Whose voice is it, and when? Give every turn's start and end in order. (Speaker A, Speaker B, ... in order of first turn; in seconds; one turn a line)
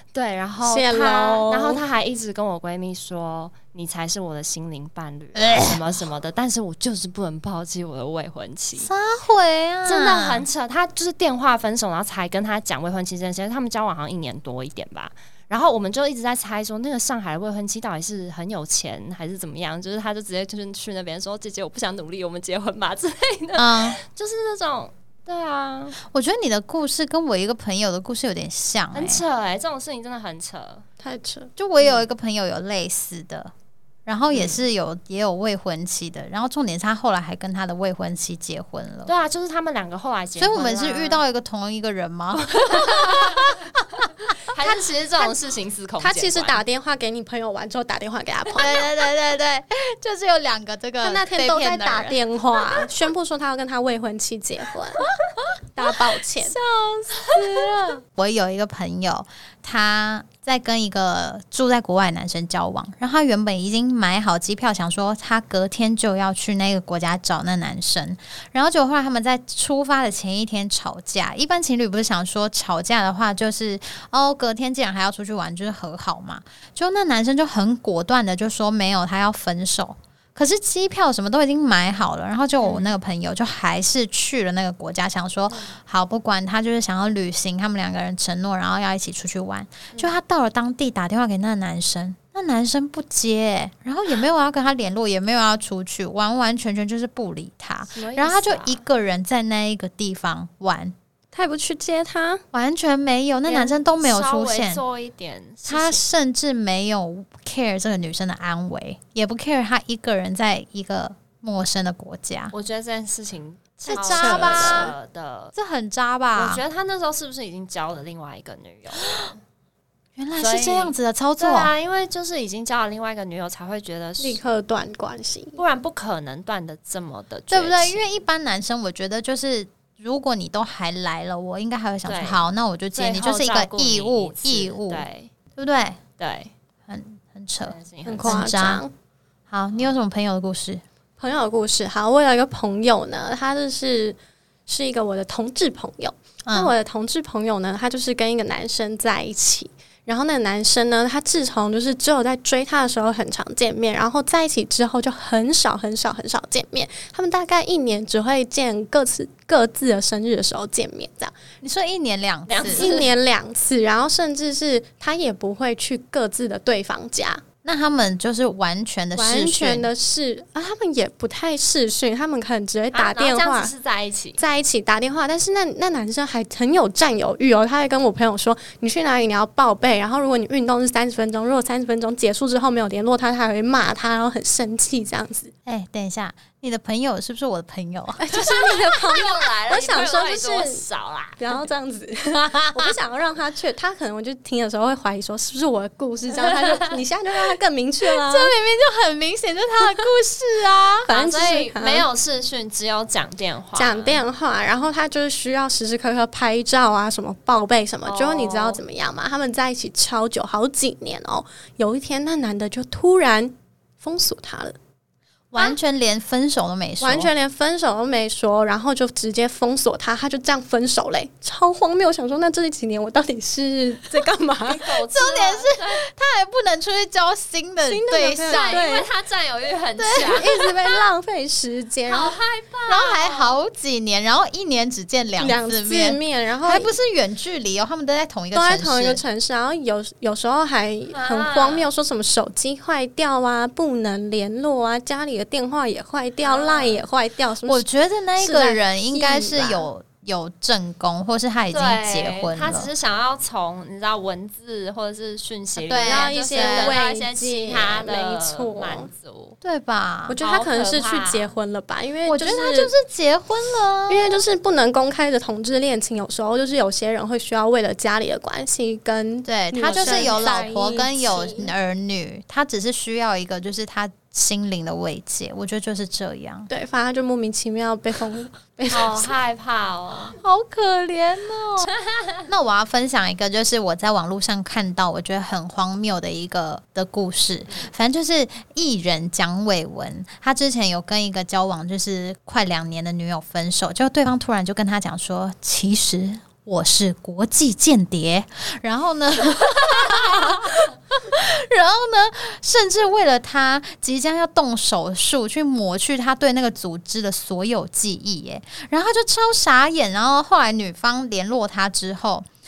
Speaker A: 0.1-8.9
Speaker B: 0.7-1.8
Speaker C: 5.4-5.8
Speaker C: 8.8-10.5
Speaker A: 9.8-26.0
Speaker C: 23.6-24.0
Speaker C: 26.0-29.2
Speaker A: 28.9-30.9
Speaker B: 31.0-31.5
Speaker C: 31.6-33.5
Speaker A: 31.8-32.0
Speaker C: 34.1-39.1
Speaker A: 34.3-34.6
Speaker A: 39.1-41.2
Speaker C: 40.4-44.1
Speaker A: 42.5-43.6
Speaker A: 44.5-46.6
Speaker B: 46.0-48.9
Speaker C: 48.6-52.2
Speaker B: 51.0-55.0
Speaker B: 55.8-56.6
Speaker C: 56.6-101.0
Speaker B: 57.3-57.7
Speaker A: 82.6-82.9
Speaker B: 98.0-98.4
Speaker A: 98.0-98.8
Speaker B: 101.3-102.4
Speaker C: 102.5-104.8
Speaker A: 103.5-106.0
Speaker C: 105.7-112.5
Speaker A: 112.5-115.5
Speaker C: 113.9-114.9
Speaker B: 113.9-114.9
Speaker C: 115.5-116.6
Speaker A: 116.4-119.3
Speaker C: 119.0-119.3
Speaker C: 120.2-121.7
Speaker A: 120.4-124.4
Speaker B: 124.2-125.6
Speaker A: 125.6-128.0
Speaker C: 127.5-136.0
Speaker A: 132.1-132.4
Speaker A: 132.9-135.3
Speaker A: 136.2-136.5
Speaker C: 136.9-138.8
Speaker A: 137.6-138.5
Speaker B: 138.1-138.9
Speaker C: 139.5-140.8
Speaker B: 141.2-161.3
Speaker C: 146.5-146.8
Speaker C: 161.6-162.9
Speaker A: 162.5-163.1
Speaker B: 162.7-167.4
Speaker C: 167.6-169.9
Speaker B: 169.2-173.7
Speaker A: 172.9-174.4
Speaker B: 174.4-185.5
Speaker C: 185.7-188.4
Speaker B: 188.2-190.8
Speaker A: 188.4-191.6
Speaker B: 191.4-198.5
Speaker C: 192.3-192.9
Speaker A: 196.5-197.0
Speaker C: 198.2-201.1
Speaker B: 201.1-202.1
Speaker A: 201.1-204.2
Speaker B: 203.8-214.8
Speaker A: 208.1-208.8
Speaker C: 215.5-217.3
Speaker B: 217.0-224.9
Speaker A: 224.7-226.0
Speaker C: 225.0-229.0
Speaker B: 227.9-229.1
Speaker A: 228.5-230.7
Speaker C: 230.0-230.5
Speaker B: 230.2-232.4
Speaker A: 232.1-233.6
Speaker C: 232.9-239.2
Speaker B: 235.4-236.9
Speaker B: 238.5-247.9
Speaker A: 241.1-241.9
Speaker A: 246.4-247.0
Speaker C: 247.7-252.9
Speaker B: 248.4-249.9
Speaker A: 251.7-259.6
Speaker C: 255.9-257.0
Speaker B: 255.9-259.1
Speaker C: 259.6-260.4
Speaker B: 260.3-262.9
Speaker A: 260.4-261.5
Speaker C: 262.3-264.4
Speaker B: 264.1-271.7
Speaker C: 269.4-276.7
Speaker A: 269.9-270.5
Speaker B: 276.7-279.4
Speaker A: 278.9-280.4
Speaker C: 280.4-281.9
Speaker A: 282.0-282.4
Speaker C: 282.5-312.5